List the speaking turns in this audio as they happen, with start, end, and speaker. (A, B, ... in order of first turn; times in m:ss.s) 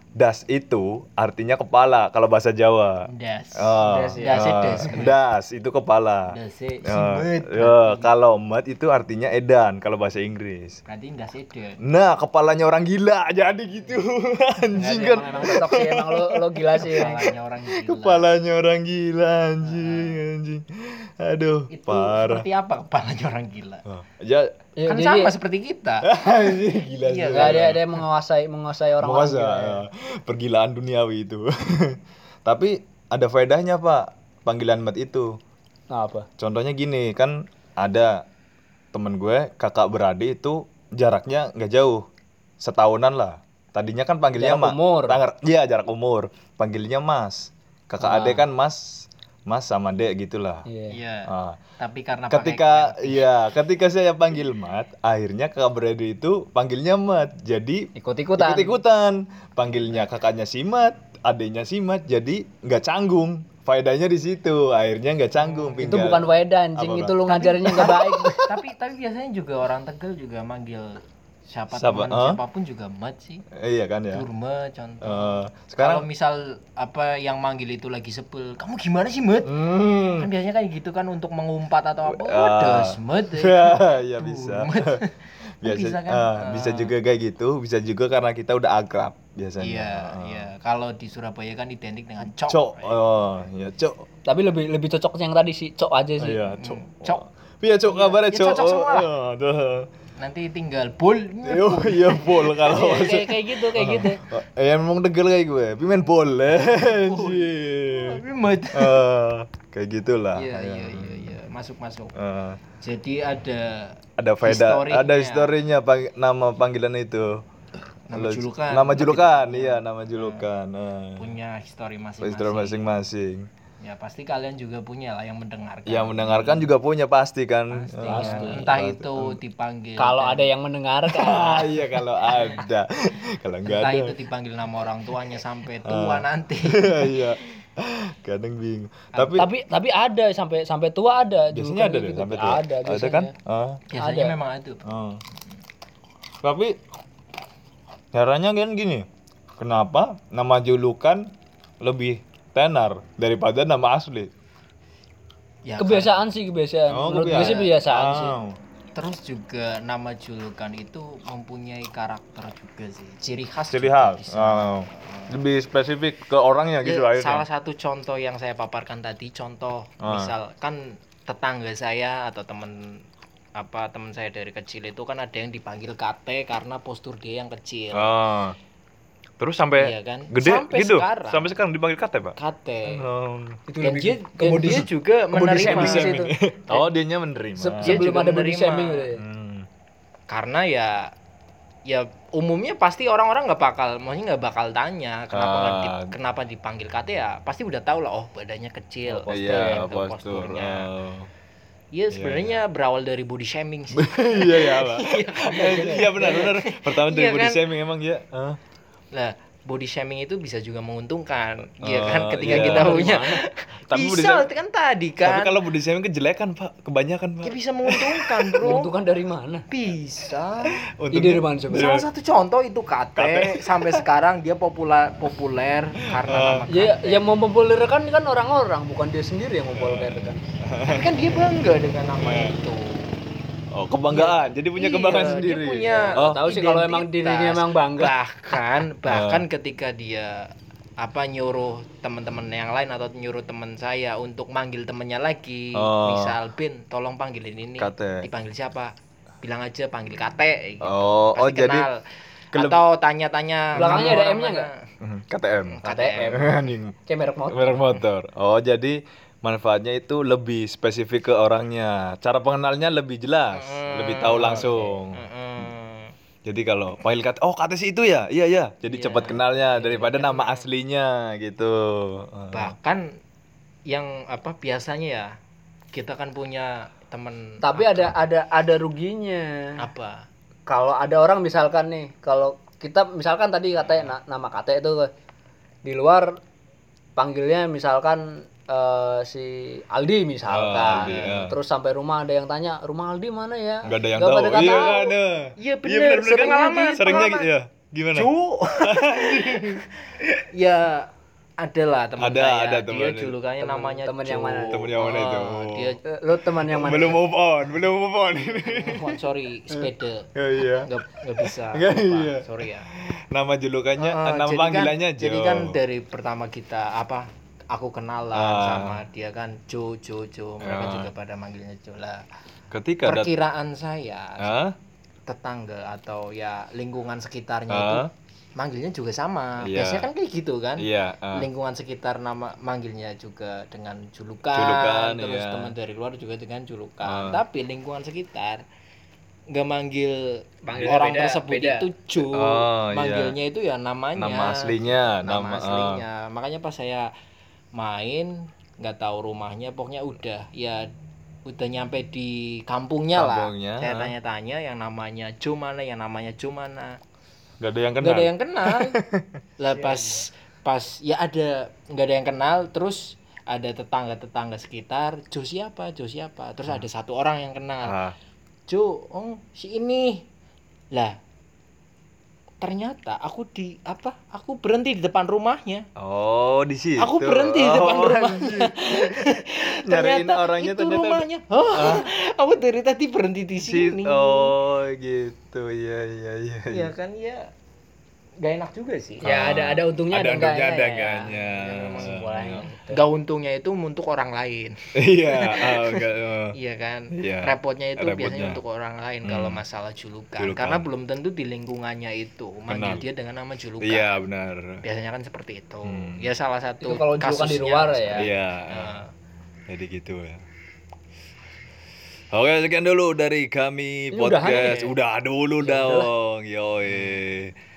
0:00.2-0:10.8 A
0:03.1-0:05.2 B
0:03.8-0:05.0 C
0:06.3-0:08.1 B
0:10.9-0:11.8 B
0:11.8-0:22.4 A
0:14.8-0:17.2 C
0:16.8-0:18.3 B
0:19.6-0:20.2 B
0:21.7-0:23.8 B
0:23.8-0:24.5 A
0:24.8-0:25.3 C
0:24.8-0:26.1 B
0:26.0-0:28.0 A
0:27.0-0:27.8 B
0:27.3-0:29.8 C
0:29.0-0:35.3 A
0:35.9-0:36.3 C
0:36.4-0:38.2 A
0:38.9-0:42.0 A
0:42.6-0:50.6 A
0:44.4-0:45.2 C
0:48.0-0:48.4 C
0:50.7-0:51.0 C
0:50.9-0:53.2 B
0:51.3-0:51.6 A
0:52.3-1:06.2 A
0:58.0-0:58.8 C
1:05.4-1:06.2 B
1:05.8-1:08.6 C
1:06.8-1:08.1 A
1:07.3-1:13.4 B
1:11.7-1:12.4 A
1:13.5-1:14.2 A
1:14.1-1:19.5 B
1:15.0-1:16.0 A
1:19.4-1:20.3 A
1:20.2-1:26.9 B
1:22.0-1:25.0 A
1:25.6-1:30.5 A
1:29.6-1:33.0 B
1:32.5-1:34.0 A
1:34.2-1:36.4 C
1:36.2-1:39.9 A
1:36.6-1:37.2 B
1:37.9-1:39.1 B
1:40.2-1:43.2 B
1:41.4-1:48.2 A
1:42.7-1:44.2 C
1:46.8-1:49.0 B
1:48.7-1:51.3 A
1:50.3-1:52.1 B
1:52.1-1:52.6 A
1:52.8-1:55.5 B
1:54.2-1:57.4 A
1:58.1-2:00.4 B
1:58.1-2:01.3 A
2:01.2-2:02.9 B
2:02.2-2:03.5 A
2:03.8-2:06.7 B
2:05.9-2:09.4 A
2:07.7-2:10.5 B
2:08.1-2:08.7 C
2:10.0-2:11.9 C
2:11.1-2:14.1 A
2:12.3-2:12.6 B
2:13.6-2:17.2 B
2:15.8-2:19.5 A
2:19.3-2:23.3 C
2:21.5-2:23.8 A
2:23.9-2:24.8 B
2:24.0-2:24.4 C
2:24.8-2:25.2 A
2:26.4-2:26.8 A
2:28.1-2:29.1 A
2:29.6-2:34.3 A
2:35.6-2:36.2 B
2:35.8-2:38.4 C
2:36.9-2:38.6 A
2:37.3-2:37.7 B
2:38.9-2:45.3 B
2:43.7-2:47.4 A
2:46.8-2:52.9 B
2:50.0-2:50.3 A
2:53.6-2:58.1 B
2:57.9-2:58.6 A
2:59.4-3:03.6 A
2:59.8-3:01.5 B
3:02.4-3:03.0 B
3:03.7-3:06.8 C
3:03.8-3:06.3 B
3:05.5-3:08.1 A
3:07.6-3:09.2 C
3:07.8-3:09.1 B
3:09.2-3:09.7 A
3:10.3-3:11.1 B
3:11.9-3:20.9 B
3:15.3-3:16.1 A
3:19.1-3:19.9 C
3:19.3-3:21.3 A
3:21.9-3:27.6 B
3:22.1-3:22.6 A
3:24.0-3:28.6 A
3:29.1-3:35.6 B
3:31.8-3:33.2 A
3:32.4-3:33.4 C
3:33.9-3:34.5 A
3:35.2-3:38.8 A
3:37.4-3:38.9 B
3:38.6-3:39.6 C
3:39.7-3:40.8 B
3:41.0-3:42.0 A
3:41.1-3:42.0 C
3:41.7-3:47.2 B
3:43.2-3:44.0 A
3:46.2-3:46.7 A
3:46.7-3:50.4 C
3:49.7-3:51.4 A
3:50.8-3:53.2 B
3:52.2-3:52.6 A
3:53.7-3:56.4 A
3:54.1-4:00.5 B
3:56.1-3:58.1 C
3:59.0-3:59.4 A
4:01.0-4:12.0 B
4:05.7-4:06.4 A
4:07.8-4:08.3 A
4:10.8-4:11.9 A
4:12.5-4:12.8 A
4:12.5-4:14.7 B
4:13.8-4:14.2 A
4:13.8-4:14.7 C
4:15.0-4:16.9 A
4:15.7-4:16.4 B
4:15.8-4:17.9 C
4:17.5-4:25.2 A
4:23.5-4:26.1 B
4:24.2-4:25.0 C
4:26.4-4:32.7 A
4:28.9-4:30.6 B
4:32.5-4:33.1 B
4:33.9-4:35.3 B
4:35.9-4:38.1 B
4:37.6-4:39.6 C
4:39.8-4:40.2 B
4:40.7-4:45.1 C
4:45.8-4:46.3 C
4:47.2-4:55.1 C
4:50.5-4:51.6 A
4:50.8-4:51.5 B
4:53.8-5:00.4 A
4:54.7-4:55.0 B
4:55.6-4:57.5 B
4:58.1-5:01.1 B
5:01.6-5:06.0 B
5:02.2-5:03.4 A
5:03.6-5:04.9 C
5:04.7-5:06.0 A
5:06.1-5:07.2 C
5:06.6-5:09.2 A
5:08.5-5:10.3 B
5:09.7-5:15.8 A
5:10.8-5:12.9 B
5:14.0-5:22.2 B
5:18.3-5:19.0 A
5:20.6-5:21.1 A
5:22.7-5:23.3 A
5:23.0-5:24.5 B
5:24.4-5:24.8 A
5:25.3-5:38.6 B
5:27.7-5:28.1 A
5:29.6-5:30.1 A
5:30.8-5:31.5 A
5:34.5-5:35.7 A
5:37.0-5:37.4 A
5:39.5-5:47.1 B
5:40.6-5:41.9 C
5:42.2-5:43.3 A
5:44.2-5:46.0 A
5:47.8-5:50.9 B
5:51.4-5:57.0 B
5:53.1-5:54.1 A
5:57.6-5:59.3 A
5:58.0-5:59.0 B
5:59.6-6:08.0 B
5:59.8-6:00.2 C
6:07.8-6:08.1 A
6:08.7-6:10.2 B
6:12.6-6:15.8 B
6:16.0-6:19.3 A
6:17.0-6:24.5 B
6:19.8-6:22.1 A
6:23.6-6:26.9 A
6:26.7-6:27.5 B
6:28.4-6:29.2 B
6:29.2-6:32.7 A
6:29.2-6:31.4 C
6:31.4-6:44.2 B
6:32.0-6:33.0 C
6:35.0-6:36.5 A
6:37.1-6:38.6 A
6:39.2-6:39.6 A
6:40.4-6:40.8 A
6:42.7-6:43.0 A
6:43.8-6:44.8 A
6:44.8-6:49.1 B
6:45.8-6:46.3 A
6:46.8-6:48.3 C
6:48.2-6:49.0 A
6:49.7-6:50.4 A
6:52.3-6:57.5 A
6:54.1-6:54.8 C
6:54.4-6:54.9 B
6:55.6-6:56.1 C